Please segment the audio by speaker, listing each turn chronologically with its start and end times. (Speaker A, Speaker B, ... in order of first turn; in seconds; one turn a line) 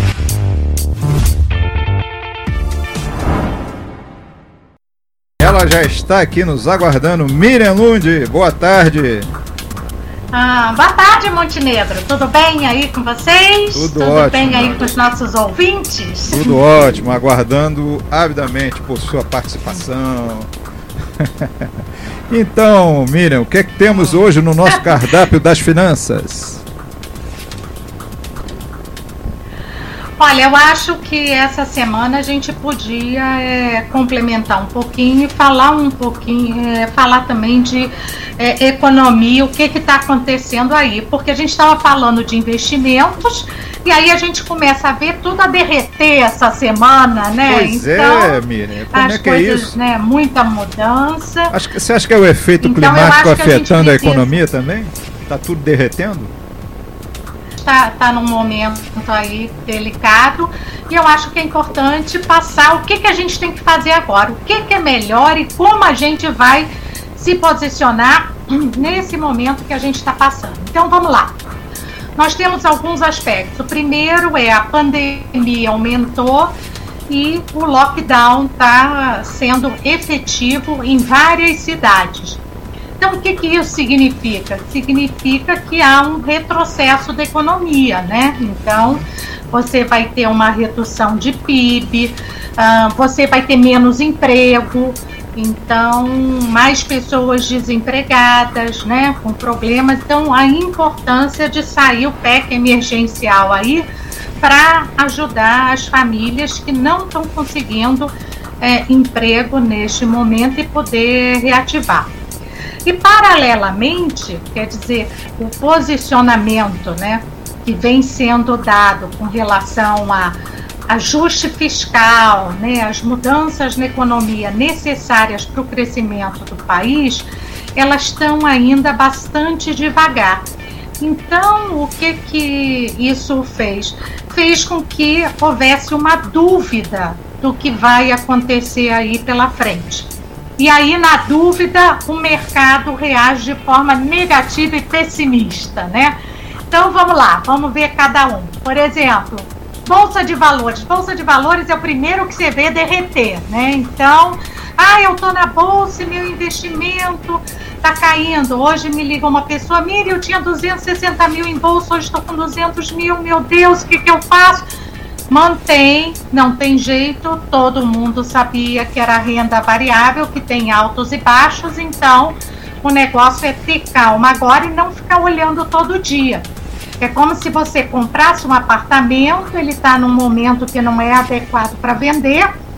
Speaker A: 5.4-9.3
Speaker B: 10.3-16.6
Speaker A: 13.7-14.9
Speaker A: 16.3-20.5
Speaker A: 21.2-21.7
Speaker A: 22.3-26.6
Speaker B: 23.9-24.9
Speaker B: 30.2-48.4
Speaker A: 47.5-49.8
Speaker B: 48.9-51.5
Speaker A: 51.5-56.3
Speaker B: 52.6-54.4
Speaker B: 57.6-71.4
Speaker B: 72.2-76.5
Speaker B: 77.1-82.4
Speaker B: 83.0-103.8
Speaker B: 104.4-112.1
Speaker B: 112.8-120.4
Speaker B: 120.9-130.5
Speaker B: 131.0-146.2
Speaker B: 146.7-164.7
Speaker B: 165.3-176.5
Speaker B: 177.0-182.5